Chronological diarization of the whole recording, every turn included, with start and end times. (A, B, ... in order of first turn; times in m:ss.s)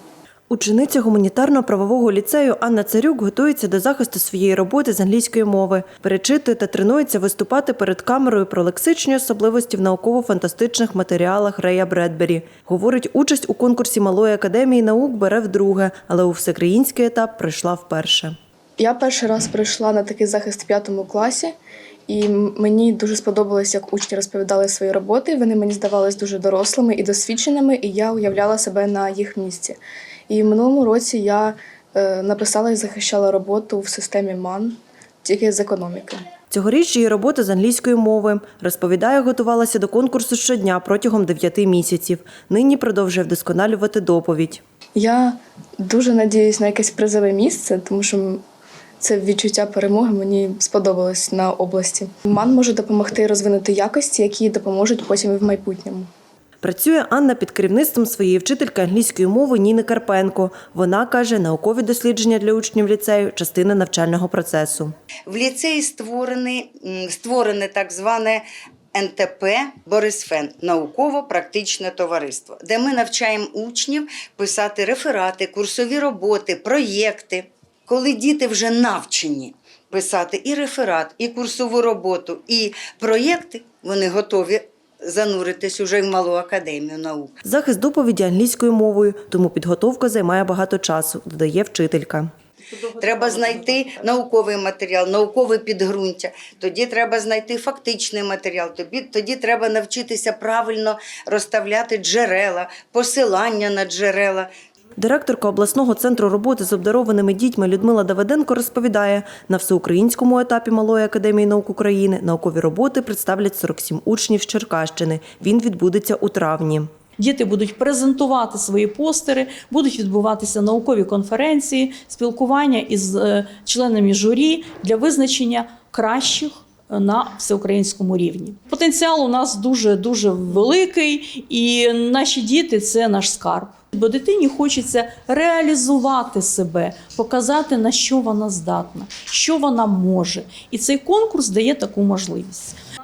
0:00.5-0:18.3 A
0:18.8-0:21.5 B
0:22.1-0:29.8 B
0:30.3-0:36.2 B
0:36.5-0:44.6 A
0:44.9-0:48.4 B
0:49.0-0:56.1 B
0:56.6-1:04.9 A
1:05.3-1:27.3 C
1:27.4-1:32.3 A
1:32.9-1:44.5 C
1:45.0-1:56.9 A
1:57.2-2:22.8 D